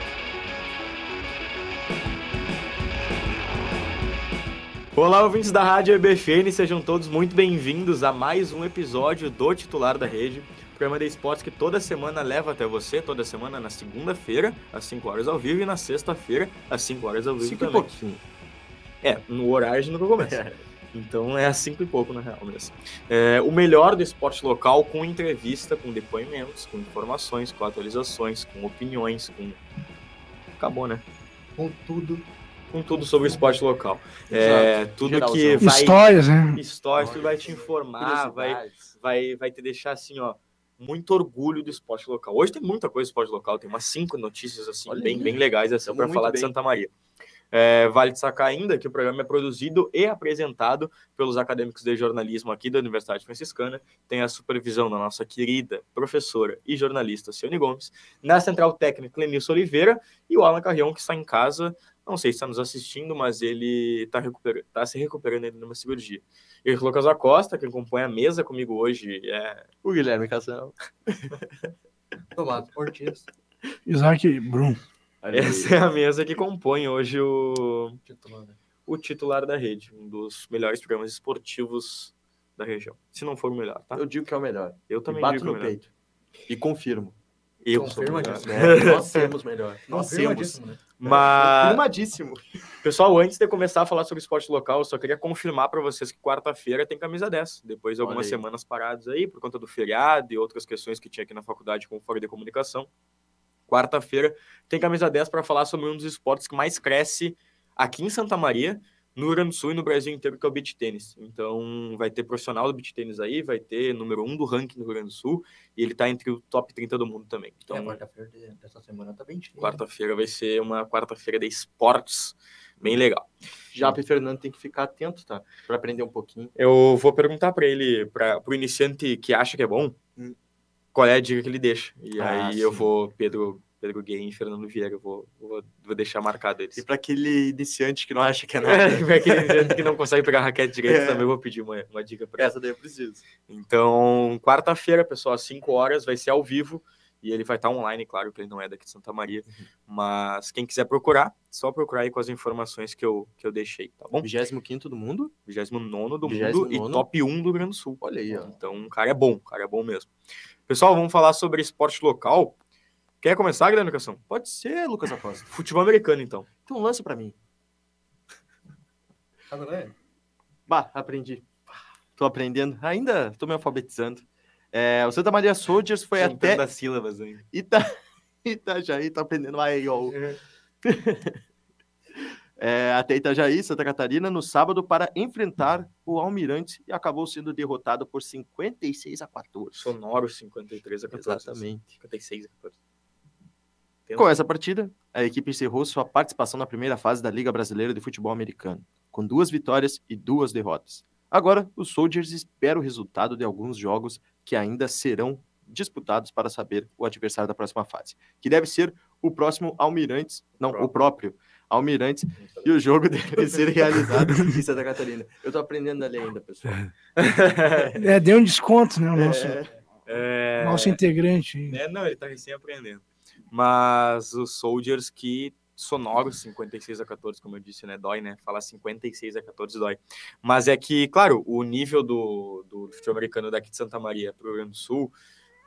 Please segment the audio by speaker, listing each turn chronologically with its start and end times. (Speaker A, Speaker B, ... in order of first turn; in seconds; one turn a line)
Speaker A: 5.0-17.9
Speaker B: 17.4-18.2
Speaker A: 19.0-20.4
Speaker B: 20.2-20.6
Speaker A: 20.9-29.6
Speaker A: 30.6-31.0
Speaker C: 31.6-32.3
Speaker A: 32.7-46.9
Speaker C: 33.0-33.5
Speaker B: 34.3-35.7
Speaker D: 35.6-36.6
Speaker B: 37.0-39.0
Speaker B: 44.9-46.5
Speaker A: 47.5-69.7
Speaker B: 69.8-71.4
Speaker C: 72.3-73.3
Speaker D: 73.9-74.8
Speaker B: 75.2-75.7
Speaker A: 75.3-78.0
Speaker C: 78.0-78.6
Speaker A: 78.9-84.0
Speaker B: 83.9-85.9
Speaker A: 84.9-85.8
Speaker B: 86.5-87.2
Speaker A: 87.6-89.3
Speaker C: 87.7-88.8
Speaker B: 88.4-92.5
Speaker C: 89.9-90.8
Speaker A: 91.0-91.8
Speaker A: 92.8-102.9
Speaker B: 98.0-98.4
Speaker A: 103.7-117.9
Speaker B: 117.7-118.0
Speaker C: 117.7-119.8
Speaker A: 119.6-123.3
Speaker B: 123.7-126.5
Speaker A: 126.6-130.0
Speaker A: 130.9-136.8
Speaker B: 132.2-132.9
Speaker B: 136.8-139.9
Speaker A: 138.6-142.5
Speaker B: 140.9-141.3
Speaker B: 142.4-143.2
Speaker A: 143.5-154.3
Speaker B: 154.2-155.3
Speaker A: 155.5-160.1
Speaker B: 156.2-157.1
Speaker B: 158.0-158.5
Speaker A: 160.7-162.6
Speaker A: 163.2-164.2
Speaker B: 164.3-165.5
Speaker A: 165.5-166.5
Speaker B: 166.6-167.4
Speaker C: 169.5-169.9
Speaker B: 170.7-171.5
Speaker B: 172.2-176.7
Speaker A: 176.2-177.4
Speaker B: 177.5-180.2
Speaker C: 180.1-180.4
Speaker B: 180.8-181.4
Speaker B: 182.6-189.9
Speaker A: 189.7-192.8
Speaker B: 191.1-191.9
Speaker A: 194.1-194.4
Speaker B: 194.2-216.9
Speaker A: 210.7-210.9
Speaker A: 212.4-212.8
Speaker A: 217.2-218.0
Speaker D: 217.9-219.6
Speaker B: 219.2-219.7
Speaker A: 220.1-221.0
Speaker D: 220.6-221.8
Speaker A: 221.7-235.1